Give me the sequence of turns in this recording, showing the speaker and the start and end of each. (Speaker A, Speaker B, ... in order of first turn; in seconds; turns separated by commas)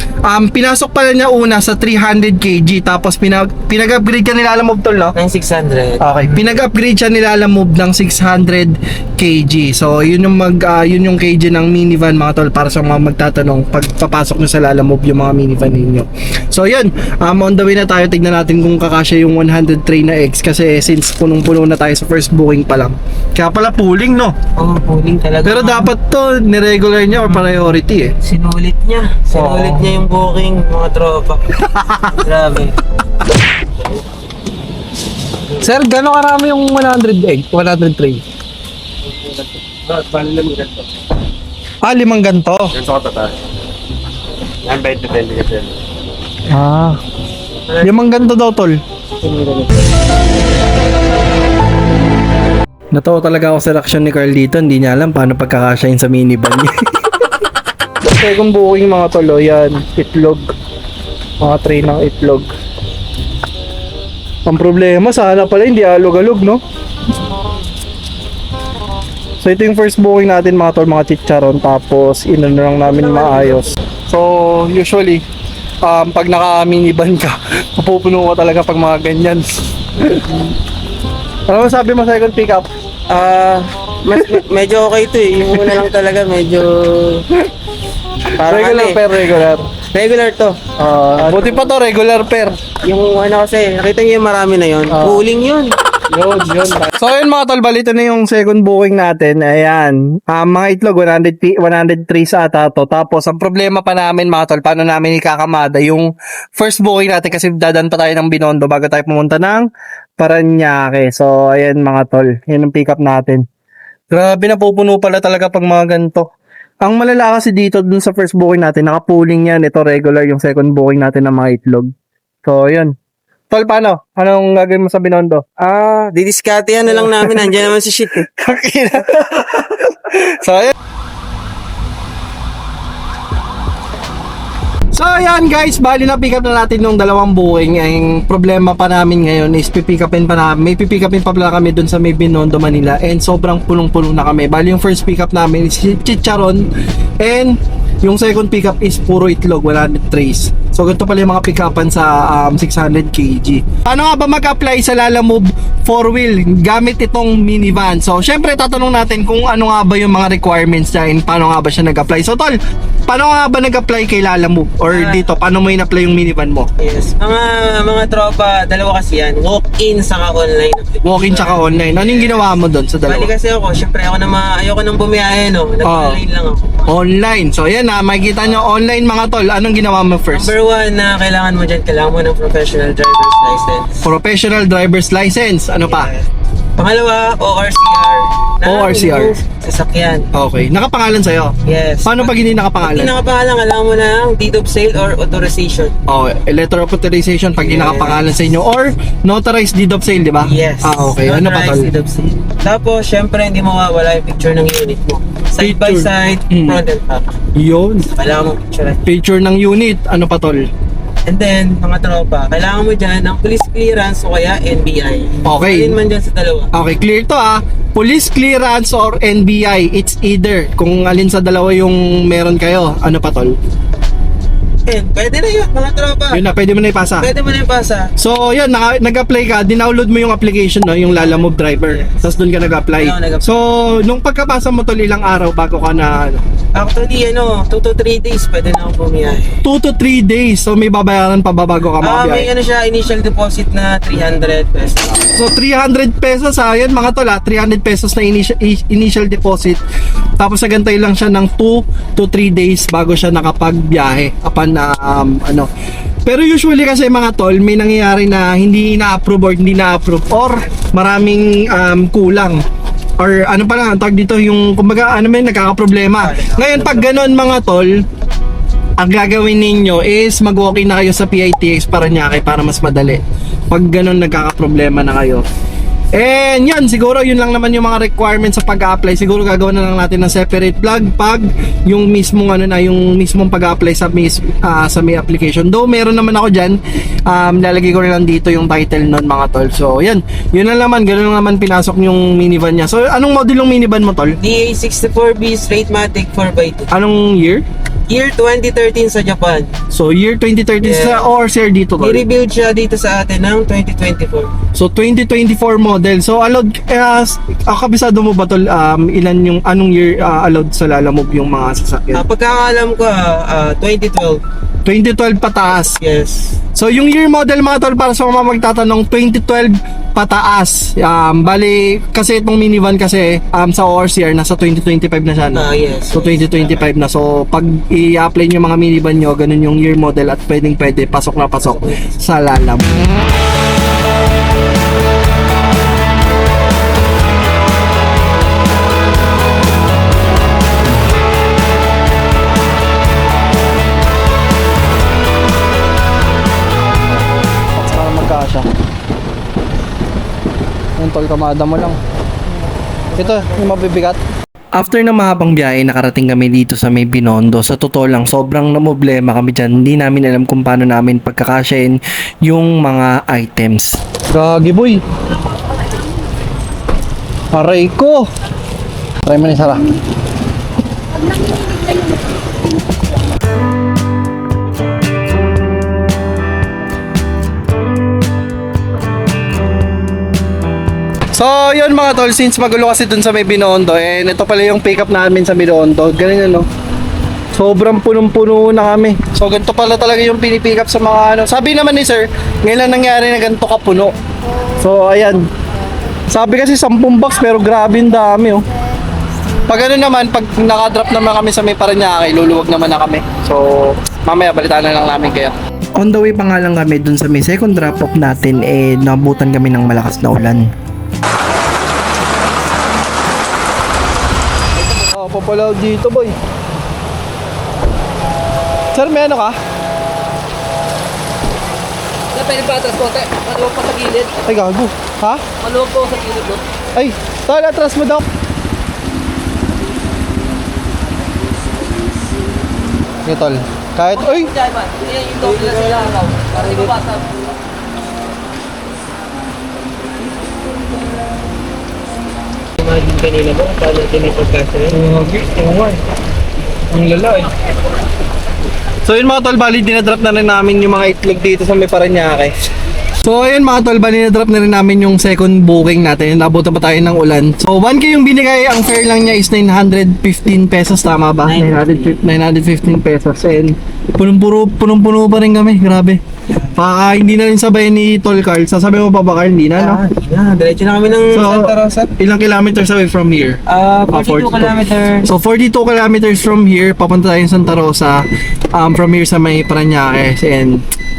Speaker A: 0.2-5.2, Speaker B: 5.2-6.4, Speaker A: 6.0-24.4, Speaker B: 24.6-25.9, Speaker A: 25.4-28.1, Speaker B: 28.2-31.5, Speaker A: 29.3-29.9, Speaker A: 31.6-32.2, Speaker B: 32.1-32.8, Speaker A: 35.6-38.2, Speaker C: 39.9-40.9, Speaker A: 41.8-42.8, Speaker C: 42.7-43.4, Speaker C: 44.6-45.7, Speaker A: 46.5-47.0, Speaker B: 47.7-48.0, Speaker A: 47.8-48.8, Speaker B: 49.2-49.9, Speaker A: 52.9-57.3, Speaker A: 58.1-60.5, Speaker A: 61.4-62.5, Speaker A: 64.5-66.6, Speaker A: 69.4-75.2, Speaker B: 73.0-73.7, Speaker A: 75.8-80.3, Speaker A: 81.5-82.7, Speaker B: 83.1-87.2, Speaker A: 85.5-85.8, Speaker B: 88.3-89.0, Speaker A: 88.4-89.7, Speaker B: 89.9-90.6, Speaker A: 90.8-92.6, Speaker B: 91.2-91.7, Speaker B: 92.8-95.7, Speaker A: 94.9-95.2, Speaker A: 96.1-109.7, Speaker A: 110.2-113.5, Speaker A: 114.1-116.3, Speaker A: 116.8-121.9, Speaker A: 122.5-122.9, Speaker A: 123.5-125.6, Speaker B: 125.6-128.3, Speaker A: 126.9-127.7, Speaker A: 128.3-130.8, Speaker A: 134.9-166.7, Speaker B: 164.9-165.3, Speaker B: 166.8-172.5, Speaker A: 171.0-173.3, Speaker B: 173.1-176.9, Speaker A: 175.8-176.2, Speaker A: 176.9-180.5, Speaker B: 180.3-184.1, Speaker A: 184.0-186.1, Speaker B: 185.8-190.3, Speaker A: 188.6-189.4, Speaker A: 190.3-193.1, Speaker B: 191.7-195.9, Speaker A: 196.1-201.9, Speaker B: 197.6-198.4, Speaker B: 200.4-207.3, Speaker A: 205.6-206.8, Speaker A: 207.6-208.1, Speaker B: 208.1-209.0, Speaker A: 209.1-210.7, Speaker B: 211.3-216.7, Speaker A: 215.4-216.0, Speaker A: 216.7-223.6, Speaker B: 224.9-226.4, Speaker A: 226.3-227.3, Speaker B: 227.2-228.1, Speaker A: 228.2-236.4, Speaker B: 233.0-233.5, Speaker B: 236.8-239.6, Speaker A: 239.6-242.5, Speaker B: 242.0-245.2, Speaker A: 245.3-249.8, Speaker A: 250.4-255.7, Speaker A: 256.3-262.6, Speaker A: 263.2-268.0, Speaker B: 266.2-267.3, Speaker A: 269.0-275.4, Speaker A: 276.1-294.4, Speaker B: 294.4-296.9, Speaker A: 296.9-297.6, Speaker B: 298.1-299.7, Speaker A: 299.9-302.2, Speaker B: 300.8-301.3, Speaker B: 302.0-304.5, Speaker A: 304.8-312.2, Speaker B: 312.1-314.4, Speaker A: 314.9-316.0, Speaker B: 315.8-316.6, Speaker A: 316.8-332.9, Speaker B: 325.5-326.9, Speaker B: 331.6-332.1, Speaker A: 347.1-348.7, Speaker A: 351.0-352.0, Speaker A: 353.2-354.2, Speaker A: 354.7-365.0, Speaker A: 367.5-368.3, Speaker A: 369.2-370.0, Speaker A: 381.3-386.7, Speaker A: 387.5-394.1, Speaker A: 394.8-395.5, Speaker A: 396.3-398.6, Speaker A: 399.7-410.7, Speaker A: 414.8-416.4, Speaker A: 418.9-419.6, Speaker D: 422.4-424.3, Speaker A: 424.4-425.5, Speaker D: 425.6-426.6, Speaker A: 426.9-428.3, Speaker A: 433.2-434.5, Speaker D: 434.3-437.2, Speaker B: 435.2-436.9, Speaker B: 442.8-445.0, Speaker A: 444.9-446.0, Speaker A: 446.9-447.5, Speaker A: 449.1-452.5, Speaker A: 453.2-466.2, Speaker B: 461.5-462.2, Speaker A: 466.8-470.0, Speaker B: 469.8-472.1, Speaker A: 471.3-473.6, Speaker B: 473.7-475.3, Speaker A: 474.1-480.8